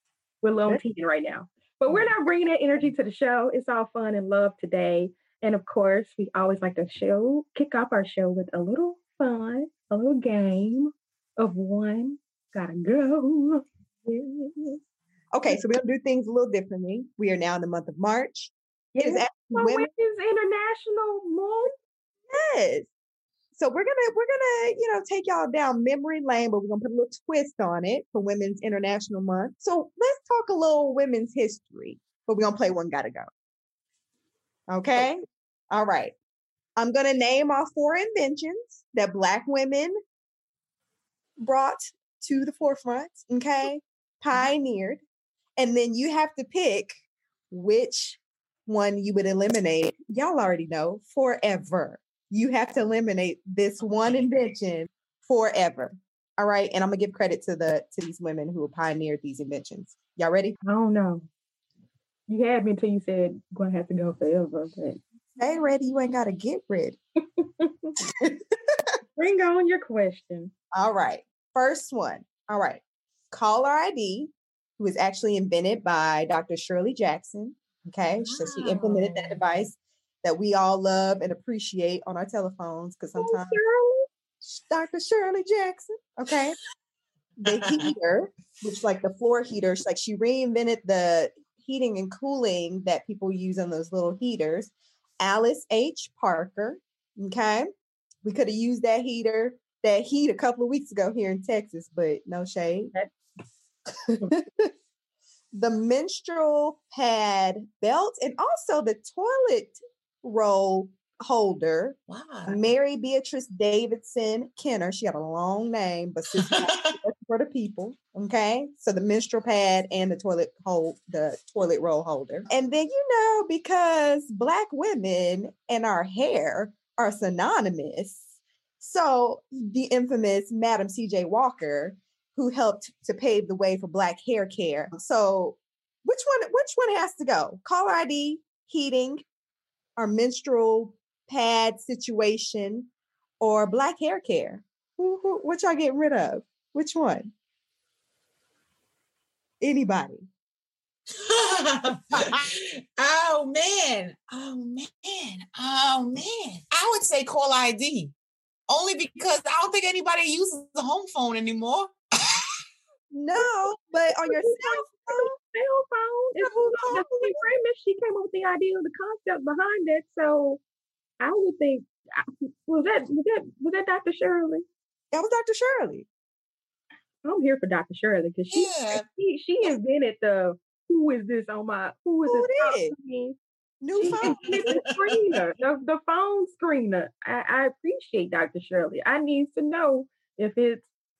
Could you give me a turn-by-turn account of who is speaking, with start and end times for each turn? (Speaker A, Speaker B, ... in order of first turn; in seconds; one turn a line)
Speaker A: 0.4-13.6
Speaker B: 14.1-14.8
Speaker B: 15.3-19.9
Speaker A: 19.0-21.7
Speaker B: 22.3-22.9
Speaker B: 23.6-33.3
Speaker B: 34.7-36.1
Speaker B: 36.8-39.9
Speaker B: 41.4-45.0
Speaker B: 45.6-47.0
Speaker B: 47.5-60.6
Speaker A: 60.6-61.3
Speaker A: 62.3-65.0
Speaker B: 65.4-67.0
Speaker A: 67.4-67.9
Speaker B: 68.2-68.8
Speaker A: 69.2-70.5
Speaker B: 70.7-83.6
Speaker C: 78.2-79.4
Speaker A: 83.2-84.1
Speaker B: 84.4-86.6
Speaker B: 87.4-97.7
Speaker C: 87.5-87.9
Speaker B: 98.2-102.9
Speaker B: 104.1-104.7
Speaker B: 105.5-128.2
Speaker C: 112.1-112.6
Speaker C: 116.3-117.0
Speaker B: 128.8-139.2
Speaker B: 140.0-147.3
Speaker B: 149.6-150.3
Speaker C: 151.2-158.1
Speaker C: 158.7-162.5
Speaker B: 163.1-165.3
Speaker A: 164.1-170.6
Speaker B: 166.4-167.4
Speaker A: 171.2-174.7
Speaker B: 175.1-176.1
Speaker A: 177.2-183.4
Speaker C: 178.5-179.1
Speaker B: 182.3-182.9
Speaker B: 183.8-184.8
Speaker A: 183.9-190.9
Speaker C: 184.2-185.1